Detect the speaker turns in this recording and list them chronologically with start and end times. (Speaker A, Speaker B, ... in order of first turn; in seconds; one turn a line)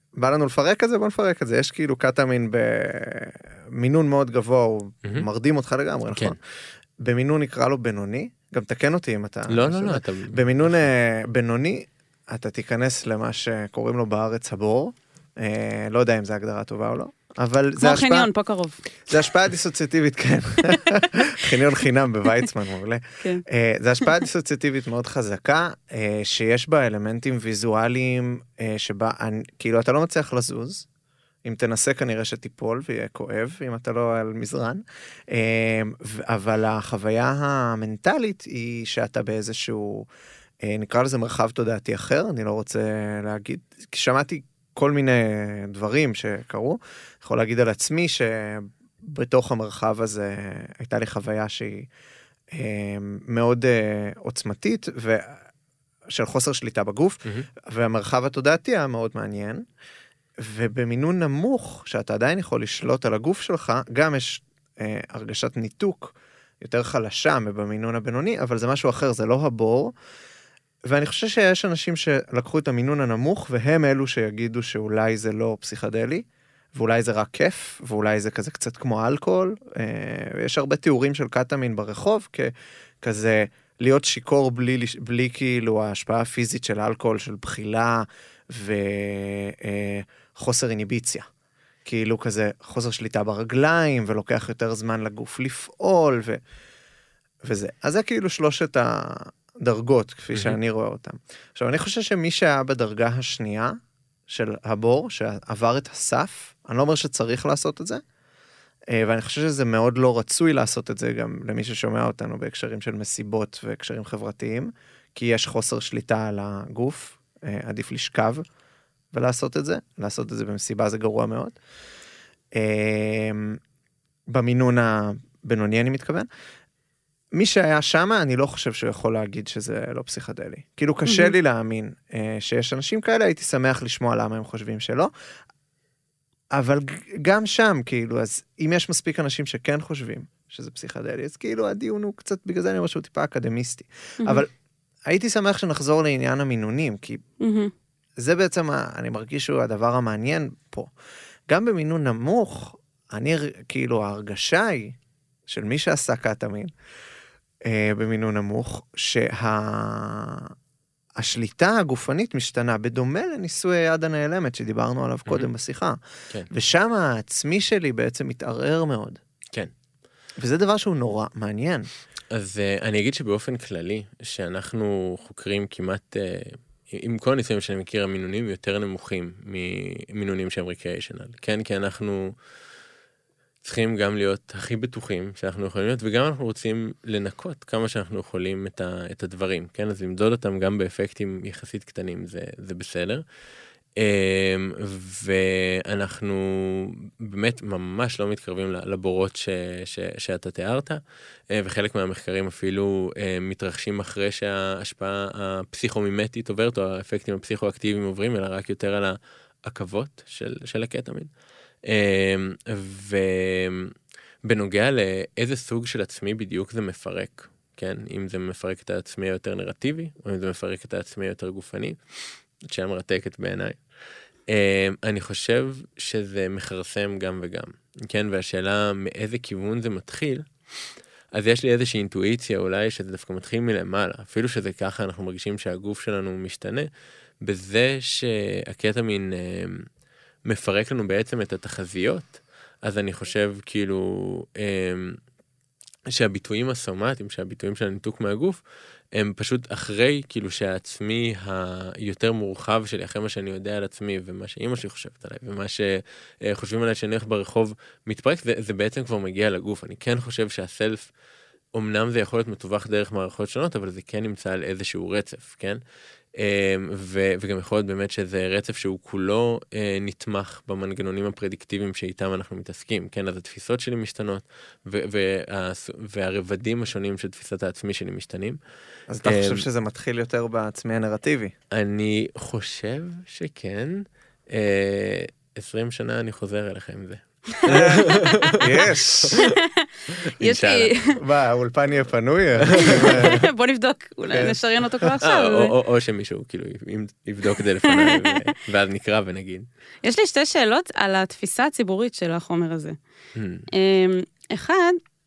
Speaker A: 0.2-6.4
Speaker B: 6.1-6.4
Speaker A: 7.0-18.3
Speaker B: 9.5-10.8
Speaker C: 17.8-18.8
Speaker A: 19.1-30.9
Speaker A: 31.4-40.1
Speaker A: 40.6-51.9
Speaker A: 52.5-55.4
Speaker A: 56.1-59.7
Speaker A: 60.4-69.9
Speaker A: 70.9-91.3
Speaker A: 91.8-96.4
Speaker A: 97.4-103.8
Speaker A: 104.3-108.0
Speaker A: 108.9-118.5
Speaker A: 119.1-121.6
Speaker A: 122.5-123.6
Speaker A: 124.3-126.3
Speaker A: 127.3-135.1
Speaker C: 131.1-131.3
Speaker A: 136.5-144.5
Speaker A: 145.1-147.2
Speaker C: 147.4-147.7
Speaker A: 148.2-150.9
Speaker A: 151.5-155.0
Speaker A: 155.5-156.7
Speaker A: 157.6-160.5
Speaker A: 161.2-166.0
Speaker A: 166.5-169.2
Speaker A: 170.4-171.9
Speaker B: 172.3-182.3
Speaker B: 183.6-193.2
Speaker B: 194.0-211.3
Speaker B: 211.8-222.0
Speaker B: 222.6-223.8
Speaker B: 224.5-230.5
Speaker B: 231.3-236.9
Speaker B: 237.4-239.9
Speaker B: 240.5-245.2
Speaker B: 246.1-248.6
Speaker B: 249.1-261.1
Speaker B: 261.7-265.8
Speaker B: 266.4-278.6
Speaker A: 279.1-281.6
Speaker B: 279.2-279.7
Speaker B: 281.7-289.5
Speaker A: 287.7-289.4
Speaker C: 288.0-288.3
Speaker C: 289.4-291.2
Speaker B: 290.1-290.9
Speaker A: 291.2-293.4
Speaker B: 292.6-293.4
Speaker C: 292.8-295.7
Speaker A: 294.3-294.6
Speaker B: 295.2-299.7
Speaker C: 297.6-298.5
Speaker C: 300.0-303.0
Speaker B: 303.4-303.7
Speaker C: 303.7-305.0